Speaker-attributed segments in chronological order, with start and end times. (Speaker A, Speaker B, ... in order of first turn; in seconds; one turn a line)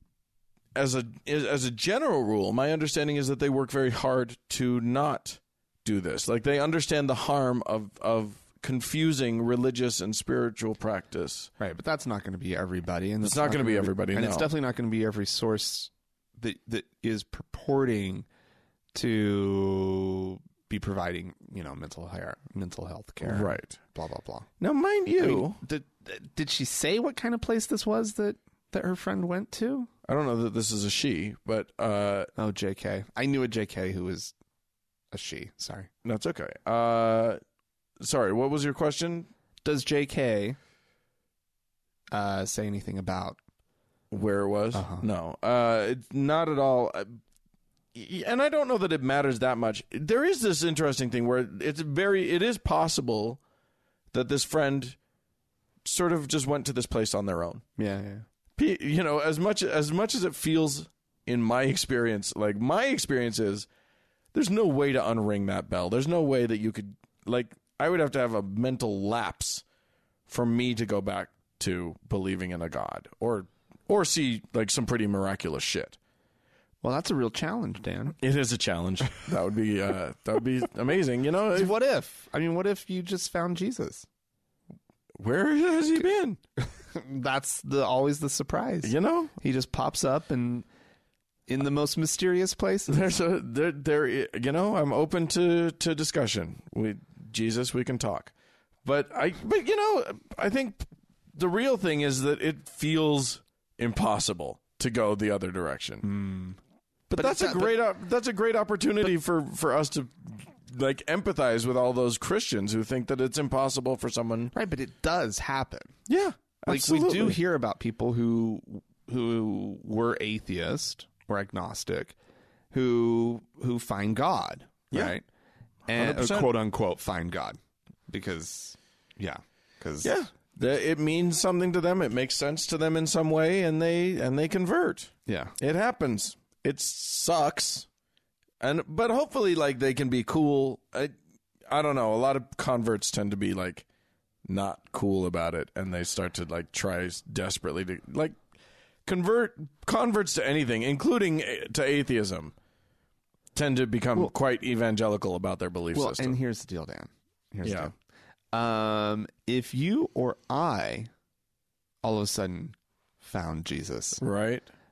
Speaker A: 0.8-11.5
Speaker B: 11.6-18.3
Speaker A: 13.2-14.5
Speaker B: 18.9-24.5
Speaker A: 23.2-23.8
Speaker A: 24.6-25.6
Speaker B: 25.1-29.9
Speaker A: 30.1-32.3
Speaker B: 32.4-34.3
Speaker B: 35.1-35.9
Speaker A: 36.0-37.4
Speaker A: 38.0-39.3
Speaker B: 39.6-40.6
Speaker B: 42.1-43.4
Speaker A: 44.1-47.2
Speaker B: 44.7-45.0
Speaker A: 47.9-53.4
Speaker A: 54.1-55.0
Speaker A: 55.8-57.6
Speaker B: 57.8-58.2
Speaker A: 58.6-63.7
Speaker A: 64.3-69.6
Speaker A: 70.3-76.0
Speaker B: 76.8-78.2
Speaker A: 78.2-81.7
Speaker B: 81.5-84.0
Speaker A: 85.2-86.4
Speaker B: 86.8-90.7
Speaker A: 88.8-89.3
Speaker B: 91.5-93.2
Speaker A: 92.9-98.3
Speaker A: 98.8-106.1
Speaker B: 106.0-106.6
Speaker A: 107.1-114.5
Speaker B: 107.2-107.8
Speaker B: 114.5-115.9
Speaker A: 116.1-117.4
Speaker B: 116.7-122.1
Speaker B: 122.7-125.2
Speaker B: 125.9-130.1
Speaker A: 126.0-126.5
Speaker A: 130.0-137.9
Speaker B: 135.2-135.5
Speaker A: 138.6-141.1
Speaker A: 141.7-143.8
Speaker A: 144.4-148.4
Speaker A: 149.1-152.5
Speaker A: 153.5-156.4
Speaker B: 155.9-157.9
Speaker A: 157.6-157.9
Speaker B: 158.5-161.1
Speaker B: 162.0-164.2
Speaker A: 164.2-164.7